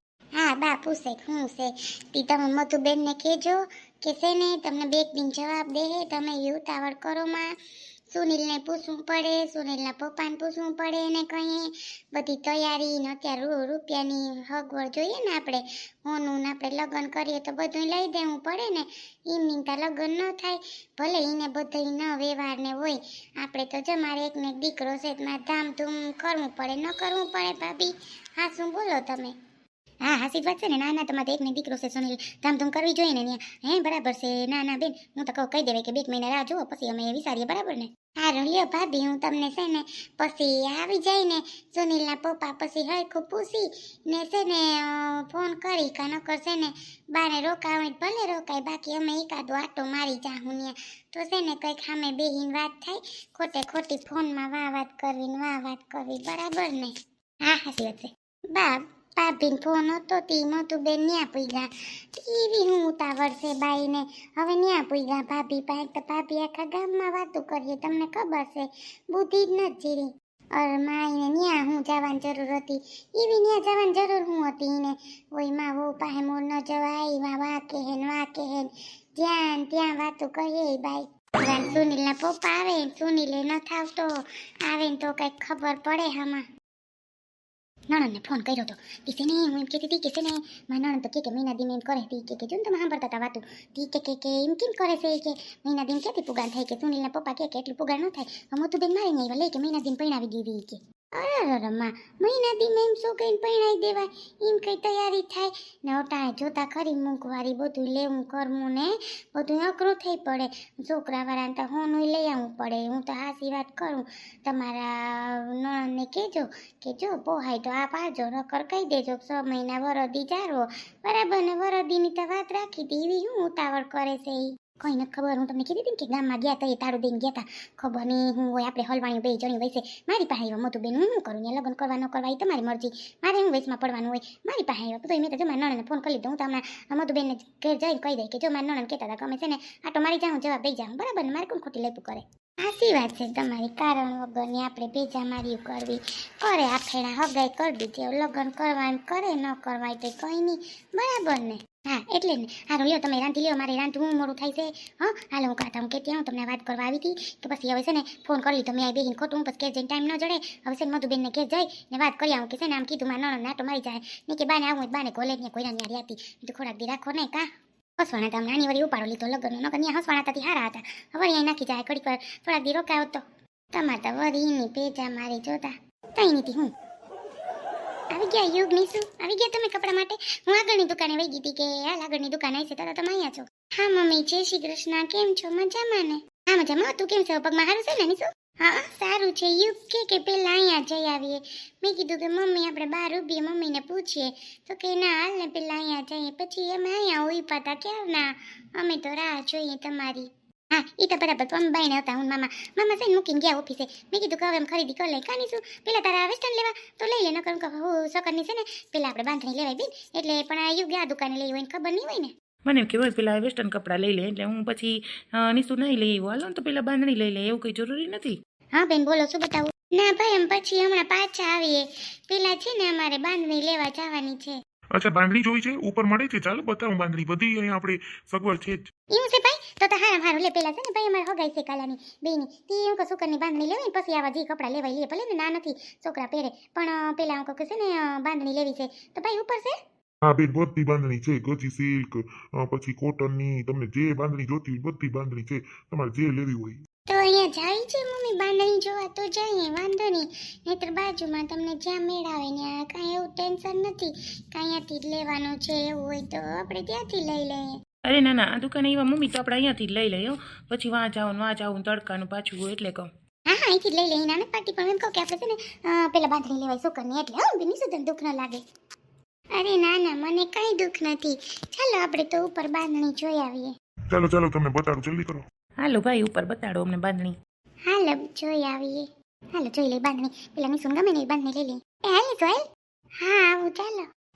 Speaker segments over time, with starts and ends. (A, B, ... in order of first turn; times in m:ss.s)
0:00.3-0:07.5 A
0:08.1-0:29.3 A
0:30.0-1:24.1 A
1:24.6-1:26.4 A
1:27.9-2:47.5 A
2:48.0-2:56.7 A
2:58.1-3:32.3 A
3:32.6-3:38.4 B
3:38.7-3:44.6 A
3:45.0-3:48.9 C
3:49.1-3:59.7 A
4:00.2-4:06.8 C
4:07.1-4:17.8 A
4:18.1-4:23.1 B
4:23.5-4:28.6 A
4:29.5-4:33.7 A
4:34.1-4:35.4 C
4:35.8-4:37.3 B
4:37.9-4:42.6 A
4:43.2-4:44.0 A